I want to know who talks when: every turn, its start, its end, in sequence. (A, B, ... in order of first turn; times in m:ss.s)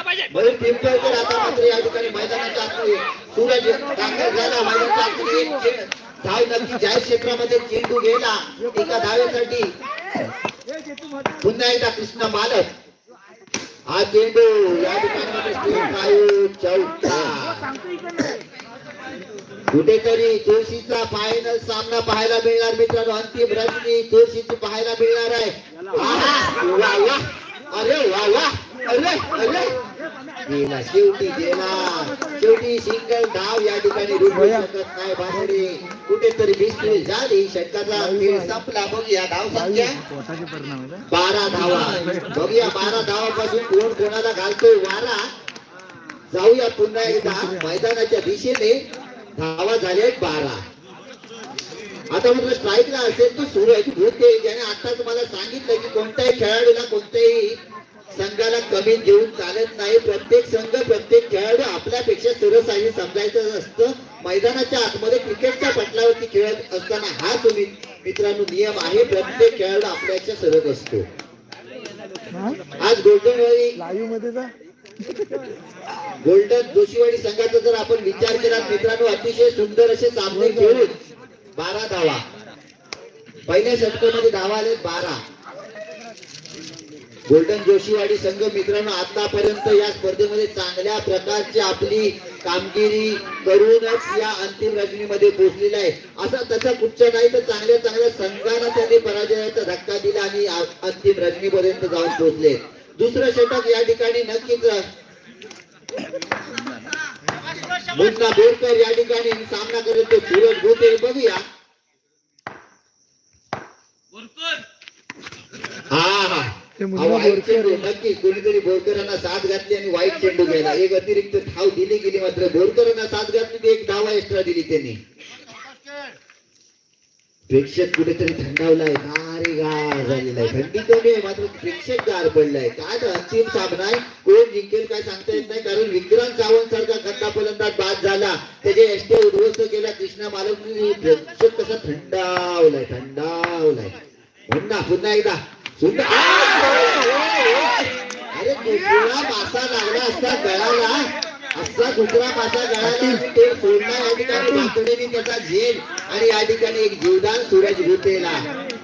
0:00.3-0:09.8 A
0:04.2-0:05.0 B
0:11.4-0:12.7 A
0:13.9-0:17.7 A
0:17.1-0:18.4 B
0:19.7-0:29.8 A
0:30.4-0:40.0 A
0:34.3-0:34.7 B
0:35.3-0:36.0 B
0:37.9-0:38.6 B
0:39.5-0:43.0 B
0:41.1-0:45.3 A
0:46.3-0:50.6 A
0:47.1-0:47.8 B
0:52.1-0:57.6 A
0:58.1-1:11.1 A
1:12.3-1:12.6 B
1:12.8-1:13.8 A
1:13.8-1:14.5 B
1:15.1-1:15.4 B
1:16.2-1:21.0 A
1:20.3-1:20.9 B
1:21.6-1:22.2 A
1:23.5-1:25.2 A
1:27.3-1:44.9 A
1:47.9-1:51.4 A
1:55.9-2:05.0 A
1:56.8-1:57.9 B
2:07.5-2:24.0 A
2:24.5-2:38.4 A
2:32.8-2:33.2 B
2:34.4-2:34.7 B